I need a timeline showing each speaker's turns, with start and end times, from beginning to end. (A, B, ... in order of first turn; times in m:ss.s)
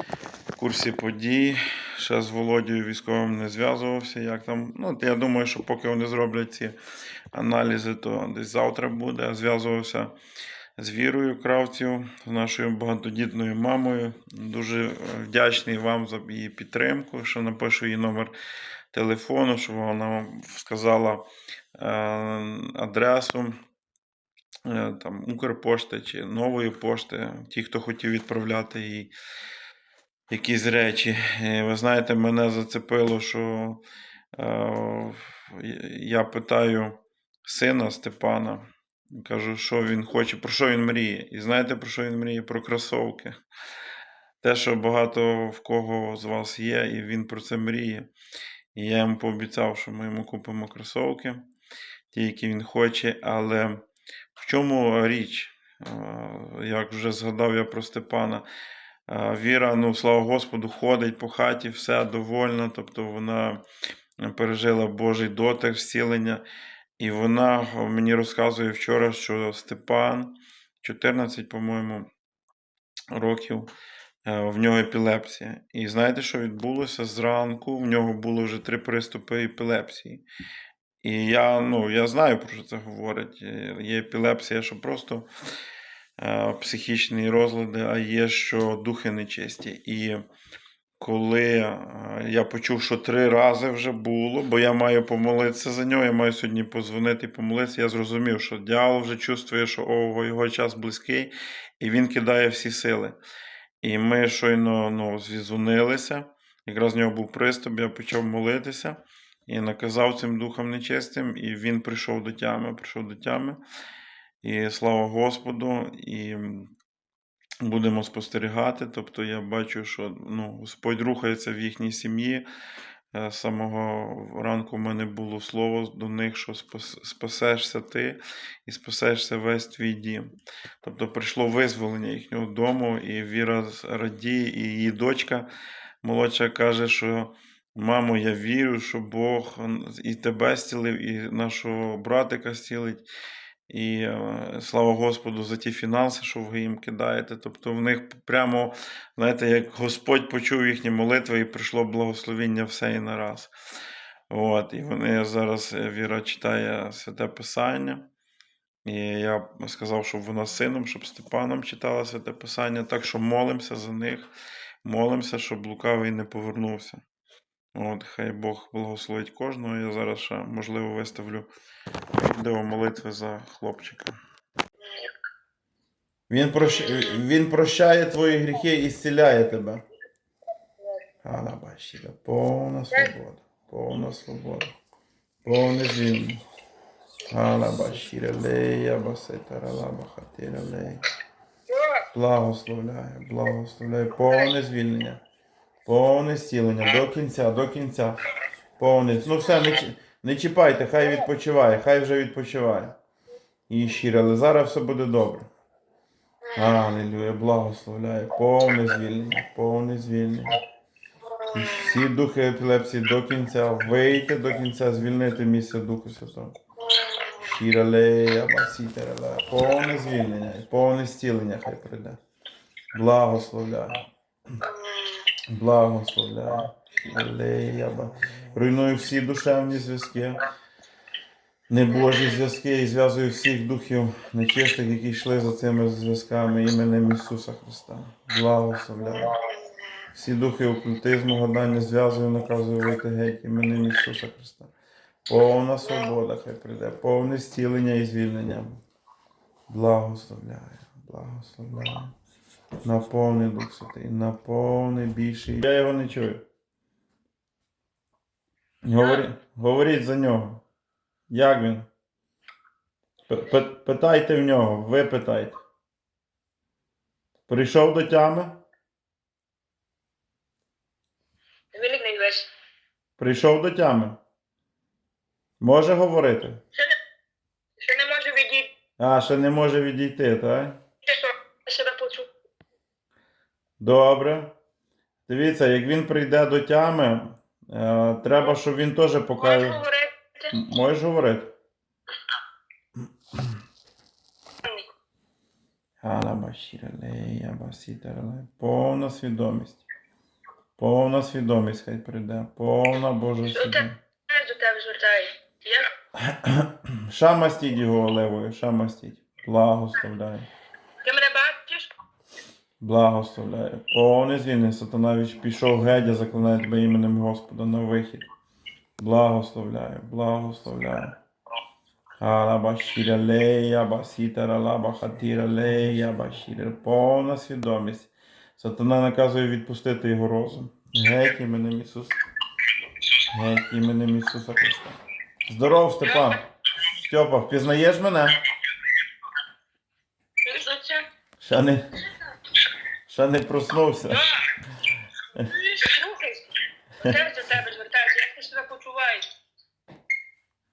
0:00.5-0:06.8 A
0:07.3-0:10.1 A
0:10.8-0:18.3 A
0:18.9-0:23.6 A
0:24.6-0:29.1 A
0:30.3-0:33.8 A
0:34.3-0:43.4 A
0:44.4-0:48.1 A
0:48.7-0:51.5 A
0:52.1-0:53.8 A
0:54.4-0:58.4 A
0:59.1-1:03.6 A
1:04.2-1:06.4 A
1:07.0-1:12.1 A
1:13.1-1:13.7 A
1:14.2-1:20.2 A
1:21.0-1:25.3 A
1:26.2-1:30.2 A
1:31.0-1:43.2 A
1:43.8-1:53.6 A
1:54.4-1:56.7 A
1:57.6-2:02.4 A
2:03.1-2:10.3 A
2:10.8-2:15.5 A
2:16.0-2:23.0 A
2:23.7-2:33.5 A
2:34.3-2:38.0 A
2:38.8-2:44.3 A
2:44.8-2:47.0 A
2:47.7-2:51.5 A
2:52.1-2:54.1 A
2:54.8-2:55.1 B
2:56.3-2:59.8 A
3:01.2-3:04.7 A
3:05.4-3:06.4 A
3:07.3-3:11.0 A
3:11.7-3:12.0 B
3:12.1-3:15.2 A
3:15.8-3:18.2 A
3:18.8-3:23.0 A
3:23.7-3:25.5 A
3:26.5-3:30.6 A
3:31.4-3:32.0 B
3:31.5-3:36.5 A
3:36.9-3:37.4 B
3:37.4-3:42.2 A
3:42.9-3:44.1 A
3:44.6-3:45.2 B
3:45.5-3:50.5 A
3:51.7-3:59.3 A
3:59.3-3:59.7 B
4:00.1-4:04.7 A
4:05.3-4:08.8 A
4:09.7-4:12.1 A
4:12.8-4:16.4 A
4:18.8-4:20.6 A
4:19.0-4:19.2 B
4:21.3-4:21.9 A
4:23.3-4:25.6 A
4:27.5-4:28.6 A
4:31.7-4:32.5 B
4:33.2-4:34.2 A
4:35.6-4:36.6 A
4:37.8-4:38.7 B
4:39.0-4:40.8 A
4:41.0-4:42.3 B
4:43.8-4:44.5 A
4:45.3-4:49.8 A
4:49.4-4:50.5 B
4:50.5-4:51.5 A
4:56.0-4:59.8 A
5:00.8-5:04.0 A
5:03.5-5:05.9 B
5:06.2-5:10.5 A
5:11.0-5:11.9 B
5:12.8-5:18.3 A
5:19.0-5:21.1 A
5:22.2-5:32.1 A
5:33.2-5:38.4 A
5:36.0-5:36.4 B
5:40.4-5:41.1 B
5:41.4-5:41.8 A
5:43.1-5:44.3 A
5:44.1-5:44.4 B
5:45.3-5:49.2 B